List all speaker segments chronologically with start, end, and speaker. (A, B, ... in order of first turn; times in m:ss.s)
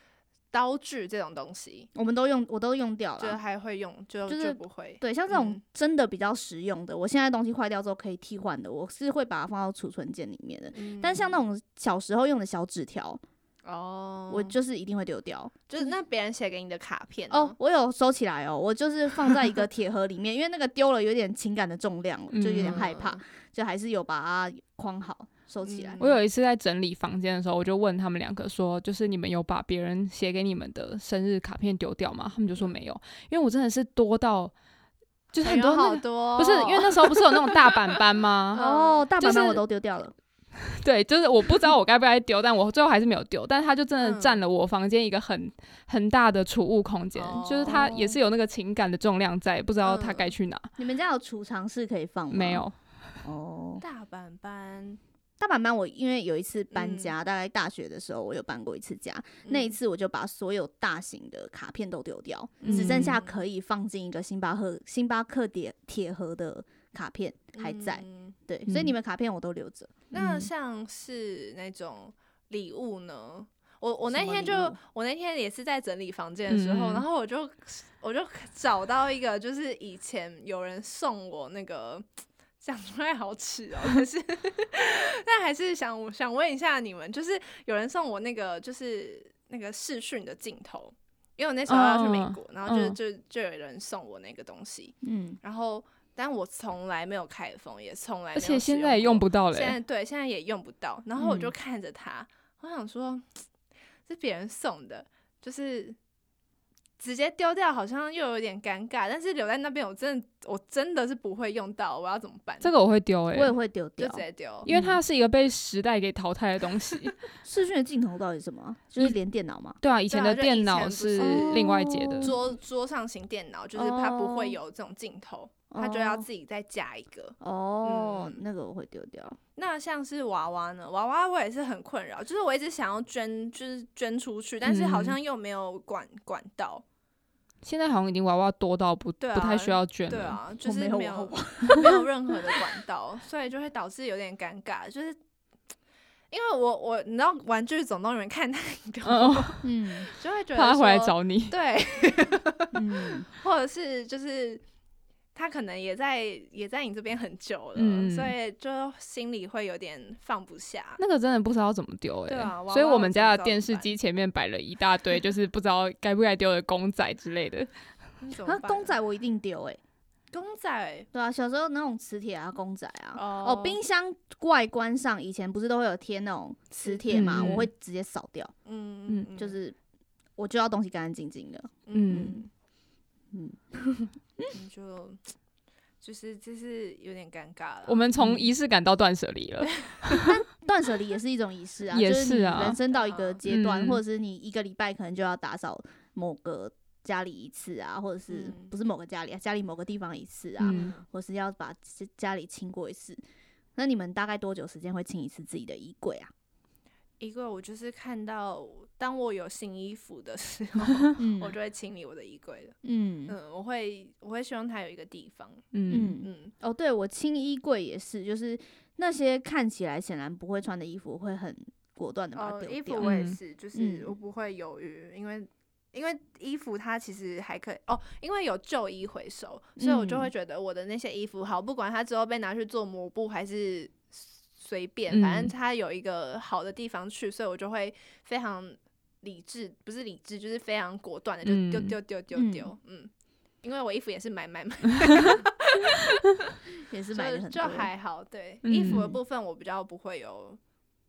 0:00.5-0:01.9 A
0:01.9-0:03.4 B
0:03.2-0:05.6 A
0:04.3-0:13.2 B
0:10.7-0:11.4 A
0:13.6-0:14.5 A
0:14.3-0:15.6 B
0:15.7-0:17.6 A
0:17.3-0:26.0 B
0:22.3-0:22.9 C
0:22.6-0:23.2 A
0:25.6-0:26.2 A
0:26.0-0:34.5 C
0:35.3-0:38.6 C
0:35.4-0:38.0 A
0:38.5-0:39.0 A
0:38.5-0:40.1 B
0:39.2-0:39.6 C
0:40.6-0:50.7 C
0:44.0-0:44.4 A
0:47.1-0:48.2 A
0:47.7-0:47.9 B
0:49.8-0:50.3 A
0:50.8-0:52.6 B
0:52.3-0:52.8 C
0:53.2-0:53.8 B
0:53.8-0:55.0 A
0:55.4-1:10.0 B
0:56.7-0:57.1 A
0:59.4-0:59.8 A
1:02.6-1:03.2 C
1:02.6-1:03.4 A
1:07.5-1:08.3 A
1:08.7-1:08.9 C
1:10.1-1:22.0 A
1:10.1-1:10.5 C
1:14.0-1:14.8 B
1:16.5-1:17.0 C
1:22.6-1:43.4 A
1:31.7-1:33.0 C
1:35.0-1:35.4 B
1:38.3-1:39.8 C
1:44.0-1:46.0 A
1:47.0-1:52.7 A
1:52.6-1:53.5 C
1:53.3-1:55.0 B
1:54.0-1:54.7 A
1:54.7-1:57.2 C
1:57.4-1:59.8 B
1:59.8-2:02.3 C
2:00.1-2:01.7 A
2:01.2-2:02.4 B
2:02.2-2:08.4 A
2:03.8-2:04.6 B
2:05.7-2:06.2 B
2:07.4-2:09.4 B
2:09.6-2:16.8 A
2:14.6-2:15.2 C
2:17.6-2:20.4 C
2:19.2-2:25.2 A
2:20.6-2:22.0 B
2:26.3-2:34.6 A
2:29.0-2:29.7 C
2:29.6-2:30.1 B
2:30.5-2:31.5 C
2:32.7-2:33.3 B
2:35.3-2:41.0 A
2:37.8-2:38.3 C
2:41.0-2:47.7 C
2:42.3-2:43.9 A
2:48.2-2:49.0 A
2:48.4-2:49.8 B
2:50.3-2:51.1 A
2:51.1-2:58.5 B
2:53.1-2:53.8 A
2:56.7-2:57.6 A
2:57.1-2:57.7 C
2:58.6-2:59.6 A
2:59.4-2:59.8 B
3:00.4-3:02.4 B
3:01.8-3:02.5 A
3:01.9-3:02.4 C
3:03.3-3:04.5 B
3:04.5-3:05.2 A
3:06.0-3:08.1 A
3:07.9-3:10.3 C
3:09.9-3:10.2 A
3:10.2-3:23.2 B
3:11.9-3:12.8 C
3:12.9-3:13.4 A
3:13.4-3:14.0 C
3:18.3-3:18.7 A
3:20.6-3:20.9 C
3:20.6-3:21.0 A
3:23.8-3:26.3 B
3:27.2-3:32.7 A
3:31.2-3:31.6 B
3:32.8-3:33.3 B
3:33.3-3:35.6 A
3:35.7-3:36.2 C
3:35.9-3:43.1 B
3:36.2-3:36.5 A
3:42.3-4:03.1 A
3:43.0-3:43.4 C
3:43.7-3:44.1 B
3:49.8-3:50.3 B
3:55.1-3:55.5 C
4:01.4-4:02.0 C
4:02.3-4:02.7 B
4:03.6-4:06.2 A
4:06.9-4:07.9 B
4:07.1-4:10.6 A
4:08.6-4:09.1 C